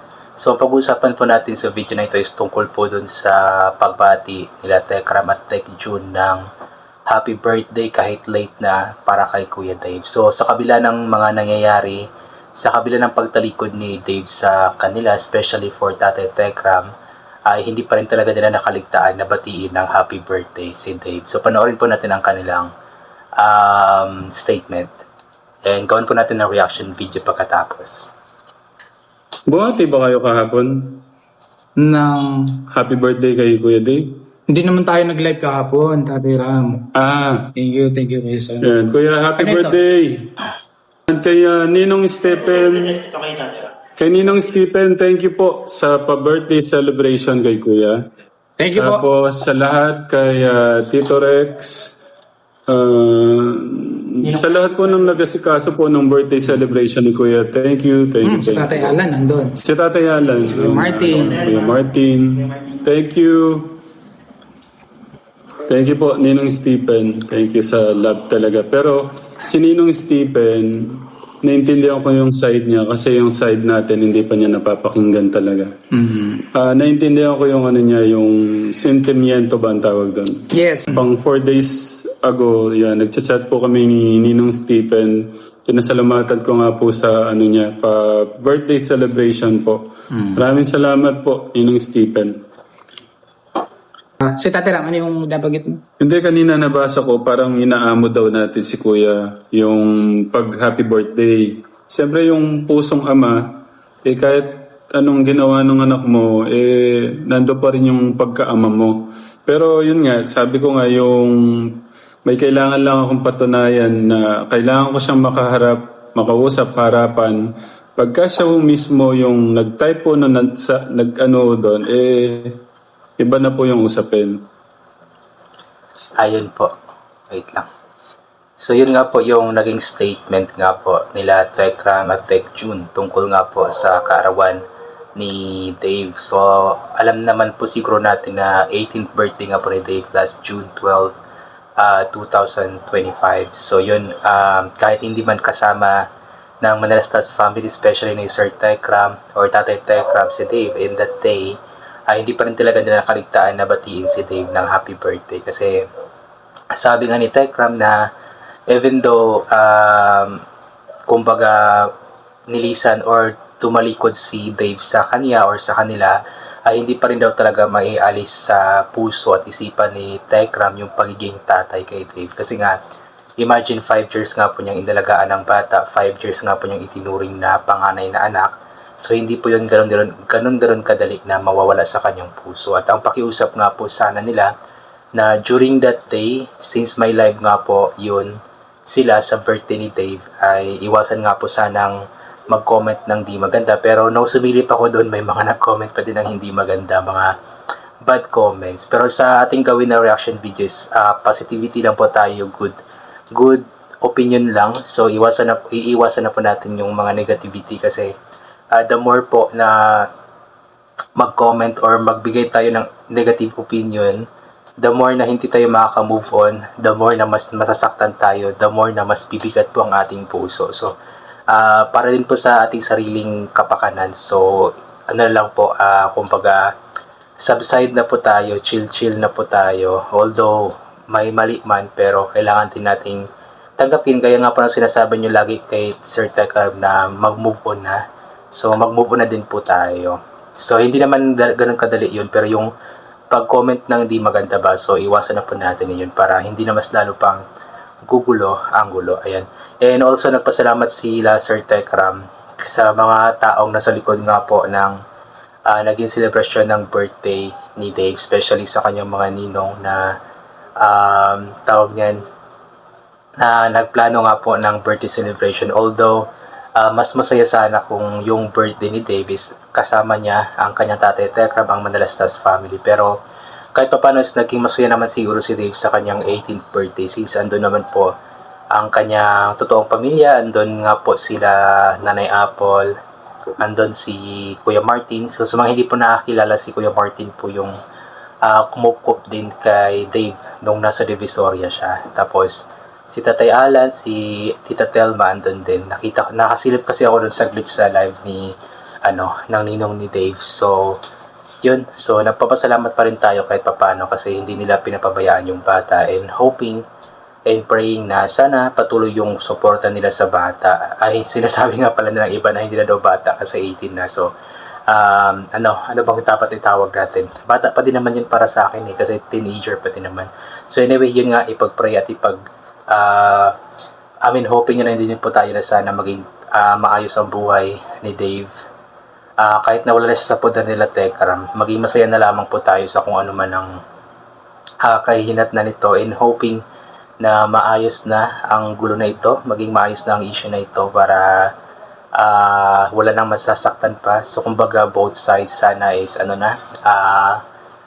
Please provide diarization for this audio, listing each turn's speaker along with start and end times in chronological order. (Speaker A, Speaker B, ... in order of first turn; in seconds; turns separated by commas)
Speaker A: 0.4-6.4, Speaker A: 7.1-12.0, Speaker A: 12.6-16.9, Speaker A: 17.5-22.7, Speaker A: 23.4-24.9, Speaker A: 25.6-28.1, Speaker B: 29.5-31.0, Speaker C: 31.8-32.6, Speaker B: 32.7-34.2, Speaker C: 34.5-36.9, Speaker B: 37.0-37.5, Speaker C: 37.6-38.7, Speaker B: 38.6-40.3, Speaker C: 39.4-39.8, Speaker B: 41.1-48.0, Speaker C: 48.6-49.0, Speaker B: 48.8-52.0, Speaker B: 52.7-59.0, Speaker C: 58.2-59.6, Speaker B: 59.6-63.8, Speaker C: 60.5-61.4, Speaker B: 65.7-75.7, Speaker C: 76.0-76.4, Speaker B: 76.4-89.8, Speaker C: 80.5-81.0, Speaker C: 90.1-90.4, Speaker B: 90.3-92.3, Speaker C: 94.2-95.8, Speaker B: 96.0-117.4, Speaker B: 118.0-122.6, Speaker B: 123.2-124.4, Speaker A: 126.2-126.7, Speaker A: 127.3-127.7, Speaker A: 128.6-134.6, Speaker A: 135.2-141.2, Speaker A: 141.8-146.0, Speaker A: 146.6-151.6, Speaker A: 152.1-155.8, Speaker A: 156.8-158.0, Speaker A: 158.7-160.4, Speaker A: 161.1-161.9, Speaker A: 162.5-172.8, Speaker A: 173.4-184.5, Speaker A: 185.2-188.4, Speaker A: 188.9-192.0, Speaker A: 192.5-197.3, Speaker A: 198.1-202.8, Speaker A: 203.3-208.1, Speaker A: 208.8-210.1, Speaker A: 211.2-214.2, Speaker A: 214.8-220.9, Speaker A: 221.5-226.6, Speaker A: 227.4-233.2, Speaker A: 233.8-238.0, Speaker A: 238.6-242.7, Speaker A: 243.3-247.4, Speaker A: 248.1-255.0, Speaker A: 255.7-260.0, Speaker A: 260.8-262.2, Speaker A: 263.4-266.3, Speaker A: 266.8-273.1, Speaker A: 273.8-278.1, Speaker A: 278.8-282.9, Speaker A: 283.6-287.7, Speaker A: 288.4-298.5, Speaker A: 299.1-301.0, Speaker A: 301.6-306.8, Speaker A: 307.5-314.3, Speaker A: 314.9-322.4, Speaker A: 322.9-323.5, Speaker A: 324.3-328.5, Speaker A: 329.4-333.7, Speaker A: 334.8-336.6, Speaker A: 337.2-341.5, Speaker A: 342.2-347.4